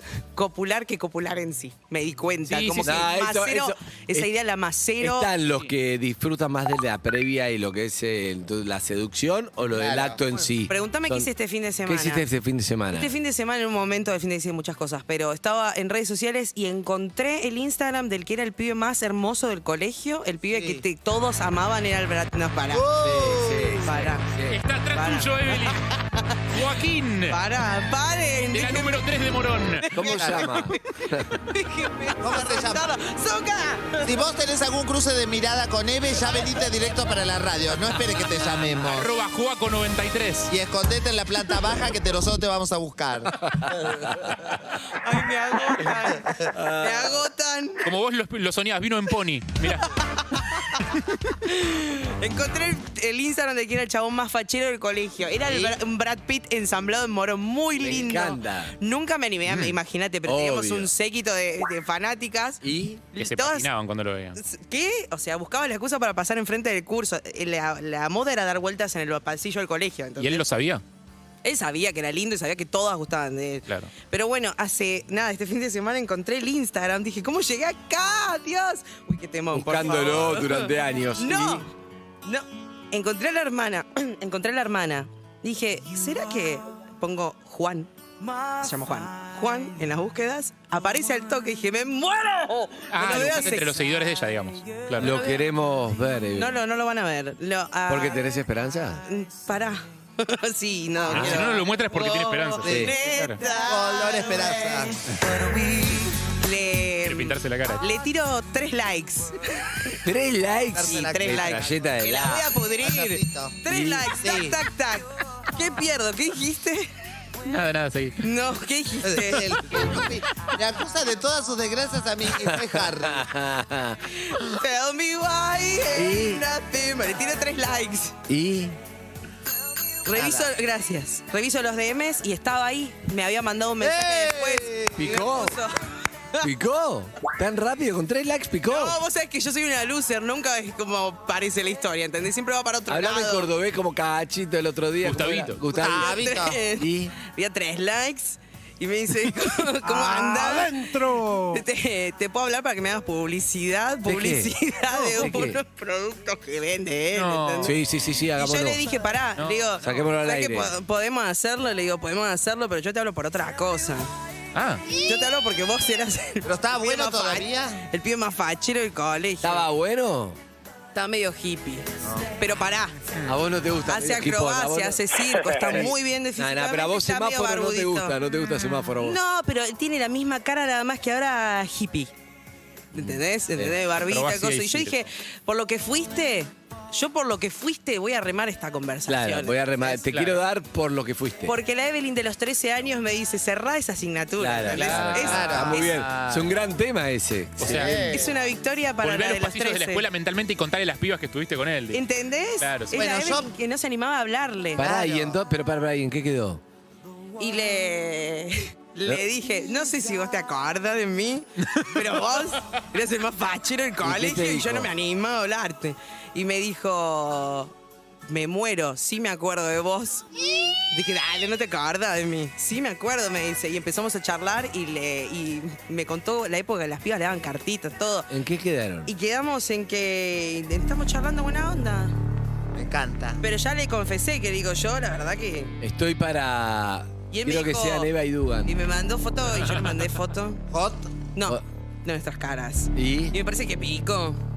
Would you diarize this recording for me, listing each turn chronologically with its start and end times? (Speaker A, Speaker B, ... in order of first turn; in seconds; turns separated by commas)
Speaker A: 0.3-5.3, Speaker B: 2.4-3.1, Speaker C: 2.8-4.3, Speaker C: 5.0-11.3, Speaker D: 9.7-10.2, Speaker A: 10.7-12.2, Speaker C: 11.8-13.1, Speaker A: 12.9-22.9, Speaker D: 20.5-20.8, Speaker D: 22.7-23.9, Speaker C: 23.0-24.6, Speaker A: 23.8-24.2, Speaker B: 24.5-25.9, Speaker A: 24.9-25.8, Speaker B: 26.5-27.4, Speaker A: 27.3-29.0, Speaker B: 28.5-29.8, Speaker A: 29.8-31.0, Speaker C: 29.9-31.4, Speaker D: 30.0-30.6, Speaker A: 31.5-34.2, Speaker D: 32.2-32.9, Speaker D: 34.0-39.1, Speaker B: 38.5-40.5, Speaker D: 40.5-43.5, Speaker A: 44.9-47.9, Speaker C: 46.5-47.2, Speaker B: 47.8-50.0, Speaker A: 51.4-63.7, Speaker C: 55.5-55.8, Speaker C: 57.8-58.8, Speaker C: 60.2-60.9, Speaker C: 62.6-63.0, Speaker B: 63.2-64.4, Speaker A: 64.3-70.5, Speaker B: 70.2-70.8, Speaker A: 71.4-81.7, Speaker C: 79.5-81.6, Speaker A: 82.2-93.8, Speaker B: 92.9-95.2, Speaker C: 95.0-96.5, Speaker A: 95.0-95.4, Speaker A: 96.3-98.2, Speaker C: 97.9-99.0, Speaker A: 99.0-104.9, Speaker D: 101.0-101.4, Speaker B: 101.1-103.4, Speaker C: 102.6-102.9, Speaker D: 103.4-104.9, Speaker A: 105.5-110.0, Speaker B: 107.0-107.8, Speaker C: 110.0-112.5, Speaker D: 110.7-111.6, Speaker A: 111.0-116.9, Speaker B: 111.2-111.7, Speaker D: 112.8-113.6, Speaker C: 113.7-114.1, Speaker D: 114.2-114.6, Speaker B: 117.4-118.2, Speaker A: 118.2-119.6, Speaker D: 119.0-123.2, Speaker C: 122.3-124.0, Speaker A: 124.1-128.2, Speaker C: 125.9-126.4, Speaker C: 128.3-128.8, Speaker A: 130.0-135.8, Speaker D: 130.1-130.5, Speaker D: 133.8-135.1, Speaker C: 135.0-135.6, Speaker C: 136.4-139.0, Speaker A: 138.7-143.5, Speaker C: 142.9-146.2, Speaker B: 145.0-145.6, Speaker D: 145.7-146.7, Speaker A: 145.9-157.8, Speaker C: 146.8-147.1, Speaker D: 149.8-151.6, Speaker C: 154.0-155.6, Speaker B: 157.1-157.8, Speaker C: 157.6-158.8, Speaker A: 158.3-164.1, Speaker B: 159.4-159.9, Speaker C: 159.8-160.7, Speaker B: 164.5-164.9, Speaker A: 164.9-169.7, Speaker D: 166.4-167.8, Speaker C: 169.4-170.4, Speaker A: 170.9-173.1, Speaker D: 172.0-172.3, Speaker C: 173.2-179.2, Speaker A: 173.9-178.2, Speaker A: 179.0-182.1, Speaker A: 182.9-190.0, Speaker C: 183.0-183.7, Speaker B: 184.0-185.1, Speaker C: 189.1-191.6, Speaker B: 190.1-190.4, Speaker A: 191.4-195.9, Speaker C: 194.4-198.1, Speaker B: 194.7-196.5, Speaker D: 195.3-195.7, Speaker B: 197.6-198.1, Speaker D: 197.6-198.3, Speaker A: 198.1-200.1, Speaker B: 199.0-202.1, Speaker A: 201.9-205.0, Speaker B: 202.6-203.0, Speaker D: 202.9-203.5, Speaker C: 204.8-206.6, Speaker D: 204.9-205.3, Speaker A: 207.4-217.7, Speaker C: 214.0-214.9, Speaker A: 218.3-228.3, Speaker C: 228.3-229.1, Speaker A: 229.1-232.1, Speaker D: 232.7-233.4, Speaker A: 233.4-235.7, Speaker C: 235.8-238.7, Speaker A: 237.3-238.1, Speaker A: 238.7-240.6, Speaker D: 240.7-241.2, Speaker A: 241.3-244.4, Speaker C: 242.9-243.3